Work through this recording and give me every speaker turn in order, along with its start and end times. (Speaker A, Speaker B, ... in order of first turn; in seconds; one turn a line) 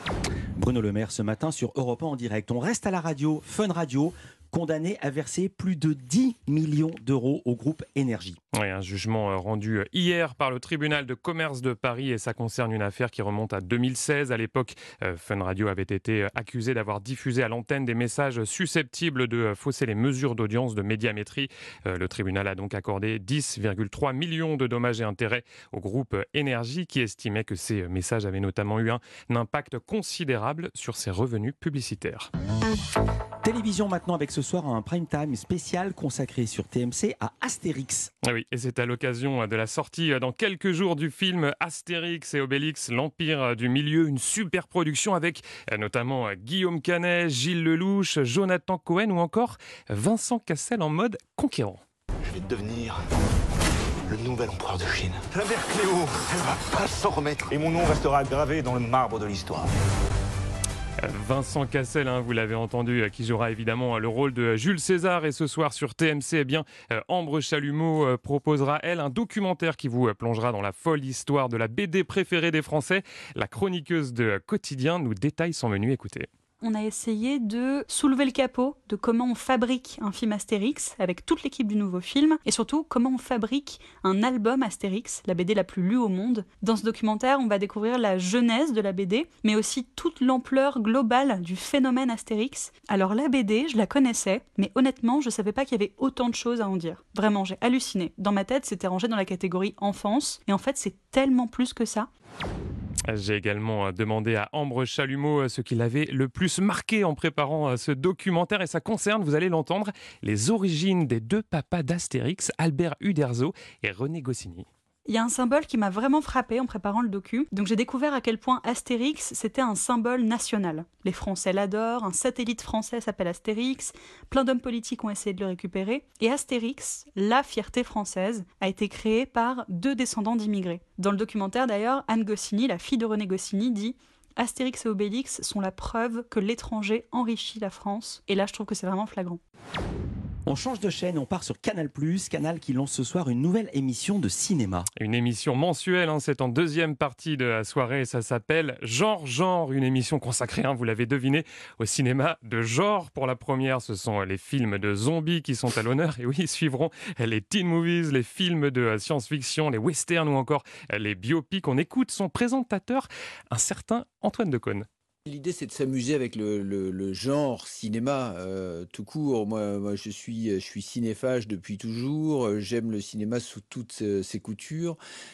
Speaker A: 0.6-8.4
Speaker B: 8.5-32.3
Speaker A: 33.4-38.1
Speaker B: 38.2-51.8
Speaker C: 52.2-53.0
Speaker C: 54.0-59.7
Speaker B: 61.0-76.3
Speaker D: 76.6-102.1
Speaker B: 103.1-114.7
Speaker D: 115.0-139.4
Speaker A: 140.4-144.9
Speaker B: 145.0-164.9
Speaker E: 165.2-175.0